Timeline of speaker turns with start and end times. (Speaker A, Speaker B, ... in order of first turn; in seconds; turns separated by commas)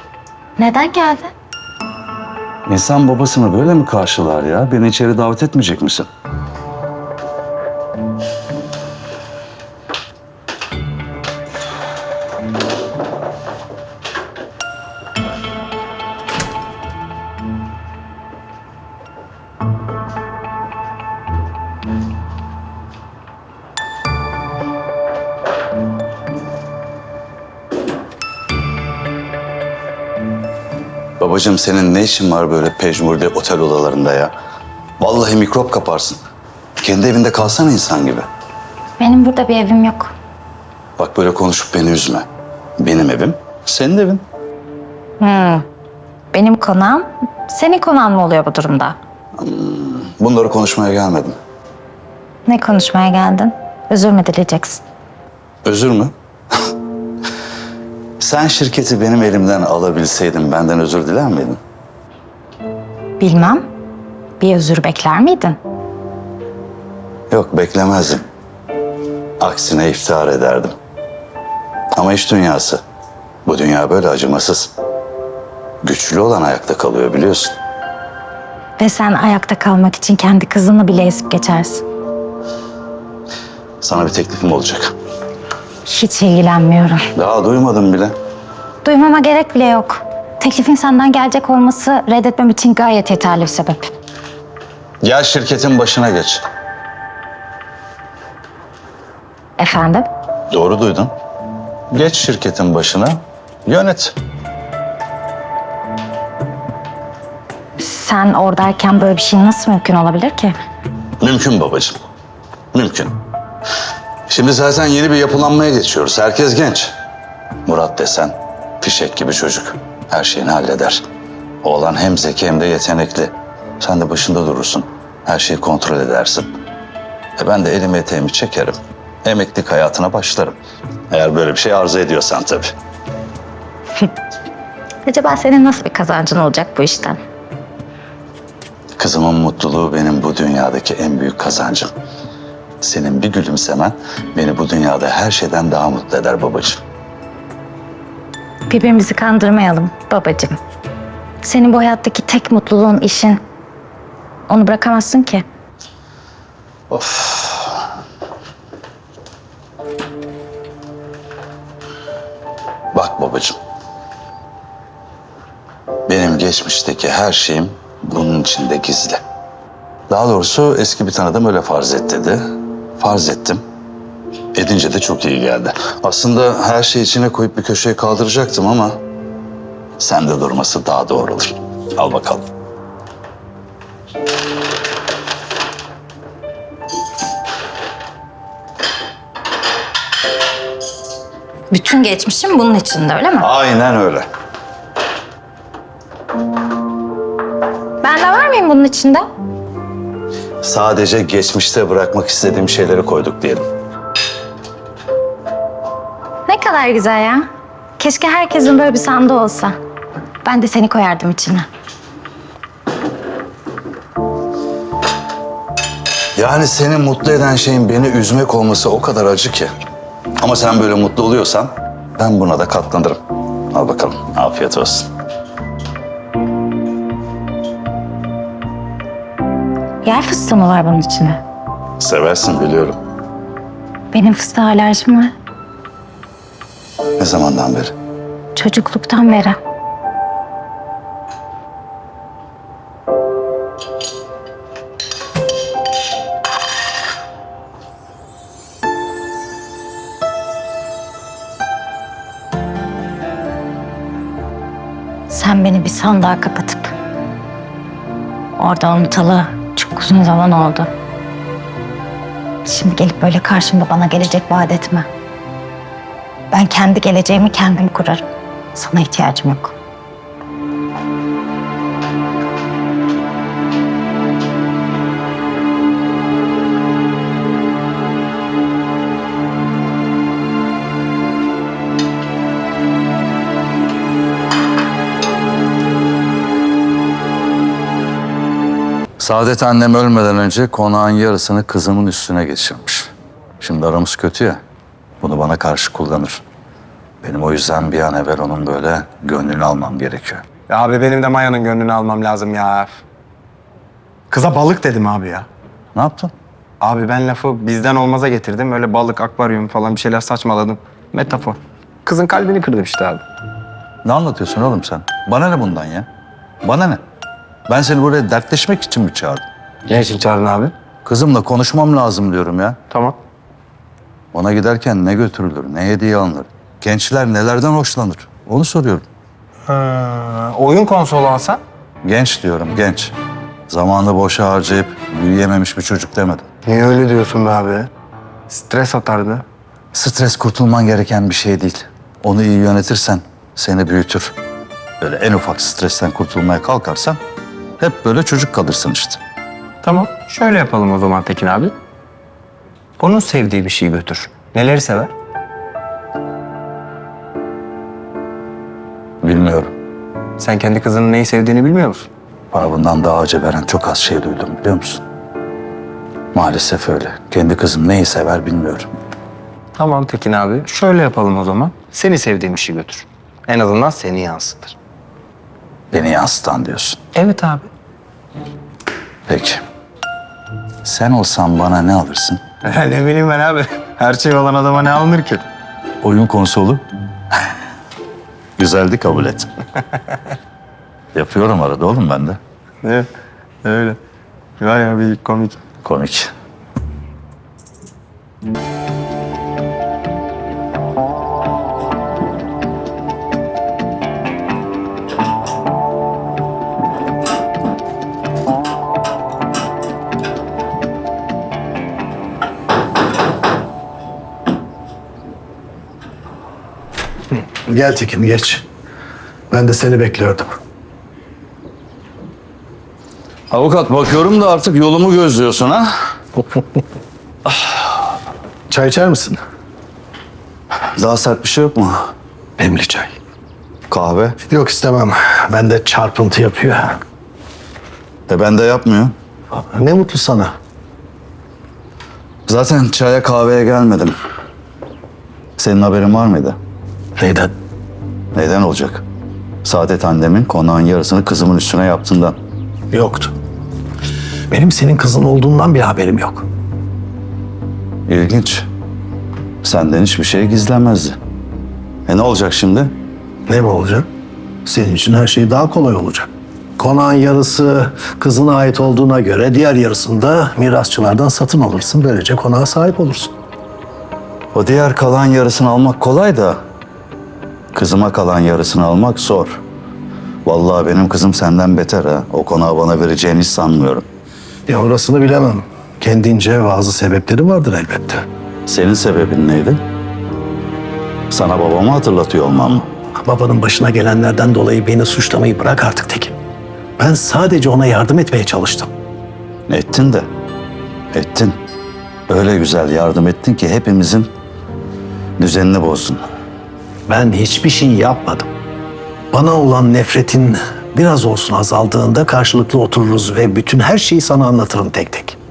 Speaker A: 0.6-1.3, Speaker B: 2.7-6.1, Speaker B: 31.2-34.3, Speaker B: 35.0-36.2, Speaker B: 36.8-38.3, Speaker A: 39.0-40.1, Speaker B: 41.0-42.2, Speaker B: 42.8-44.2, Speaker A: 45.2-45.6, Speaker A: 46.3-49.0, Speaker B: 49.4-51.4, Speaker A: 52.5-54.8, Speaker B: 55.6-56.1, Speaker B: 58.2-61.6, Speaker A: 63.2-63.7, Speaker A: 64.4-65.6, Speaker B: 67.3-68.2, Speaker B: 69.4-70.8, Speaker B: 71.9-72.8, Speaker B: 73.5-74.7, Speaker B: 75.8-77.6, Speaker A: 78.8-81.8, Speaker B: 83.8-84.9, Speaker A: 85.8-87.0, Speaker B: 87.1-88.1, Speaker A: 88.8-93.9, Speaker B: 95.0-96.4, Speaker A: 99.6-100.1, Speaker B: 100.5-101.1, Speaker B: 101.9-104.1, Speaker A: 107.8-110.5, Speaker B: 111.2-112.0, Speaker B: 112.7-113.2, Speaker B: 114.3-116.9, Speaker B: 117.7-121.0, Speaker B: 121.6-126.5, Speaker B: 127.4-130.6, Speaker B: 131.1-132.7, Speaker A: 135.0-137.2, Speaker B: 139.0-141.9, Speaker B: 142.8-146.8, Speaker A: 148.7-150.6, Speaker A: 151.4-153.4, Speaker A: 154.5-155.4, Speaker B: 156.9-157.8, Speaker B: 162.9-163.6, Speaker B: 166.1-169.2, Speaker B: 170.1-172.5, Speaker B: 173.0-173.6, Speaker B: 174.5-179.0, Speaker B: 180.0-182.4, Speaker A: 191.7-193.5, Speaker B: 193.4-194.2, Speaker A: 198.0-199.3, Speaker B: 200.6-203.6, Speaker A: 206.5-207.4, Speaker A: 208.0-209.8, Speaker A: 210.4-211.7, Speaker B: 216.3-219.7, Speaker B: 220.4-223.2, Speaker B: 223.7-225.1, Speaker A: 230.0-231.4, Speaker B: 232.0-233.0, Speaker A: 234.1-235.3, Speaker B: 237.2-237.9, Speaker A: 238.5-239.6, Speaker A: 255.3-256.9, Speaker A: 258.6-260.9, Speaker A: 262.6-265.1, Speaker A: 266.5-269.7, Speaker B: 289.2-294.6, Speaker B: 295.2-296.4, Speaker B: 297.2-300.4, Speaker C: 300.7-303.0, Speaker C: 304.3-305.5, Speaker B: 305.9-306.3, Speaker C: 306.8-313.2, Speaker B: 314.0-316.1, Speaker B: 316.6-317.0, Speaker B: 317.7-319.4, Speaker C: 319.9-320.7, Speaker B: 321.0-322.8, Speaker C: 322.9-323.2, Speaker B: 324.3-329.0, Speaker C: 329.7-331.6, Speaker B: 332.0-333.1, Speaker B: 333.7-336.5, Speaker C: 336.6-337.9, Speaker C: 338.5-339.4, Speaker B: 339.9-344.3, Speaker B: 345.0-347.2, Speaker B: 347.8-349.2, Speaker C: 349.8-351.7, Speaker C: 353.0-355.1, Speaker B: 359.2-359.7, Speaker C: 360.4-362.1, Speaker B: 362.5-365.0, Speaker B: 366.3-368.9, Speaker C: 369.8-374.7, Speaker B: 375.9-377.0, Speaker C: 377.1-377.7, Speaker B: 379.3-379.6, Speaker B: 380.8-382.4, Speaker C: 382.6-385.4, Speaker B: 386.0-386.8, Speaker B: 388.6-389.5, Speaker B: 391.1-392.4, Speaker C: 392.8-393.1, Speaker C: 393.6-394.0, Speaker C: 394.6-395.6, Speaker B: 395.8-396.3, Speaker D: 417.6-418.6, Speaker D: 419.5-420.6, Speaker B: 423.5-425.9, Speaker D: 428.7-429.4, Speaker B: 430.9-432.1, Speaker D: 432.6-433.1, Speaker B: 433.9-434.4, Speaker D: 434.5-437.0, Speaker B: 438.3-439.1, Speaker D: 439.5-440.5, Speaker B: 442.5-444.1, Speaker B: 445.6-446.6, Speaker D: 447.2-447.5, Speaker B: 448.3-449.0, Speaker B: 449.6-452.4, Speaker D: 452.9-453.3, Speaker D: 454.5-456.4, Speaker B: 458.1-458.7, Speaker B: 459.6-461.1, Speaker B: 462.1-462.9, Speaker D: 463.5-464.1, Speaker D: 464.6-473.3, Speaker B: 474.5-476.6, Speaker B: 477.7-479.6, Speaker B: 480.4-484.1, Speaker D: 484.7-488.2, Speaker B: 488.7-489.8, Speaker B: 491.3-492.9, Speaker D: 493.2-496.4, Speaker D: 497.0-498.9, Speaker B: 499.7-500.3, Speaker B: 501.1-501.6, Speaker B: 502.3-504.3, Speaker B: 505.4-506.2, Speaker D: 507.1-508.5, Speaker D: 509.3-515.4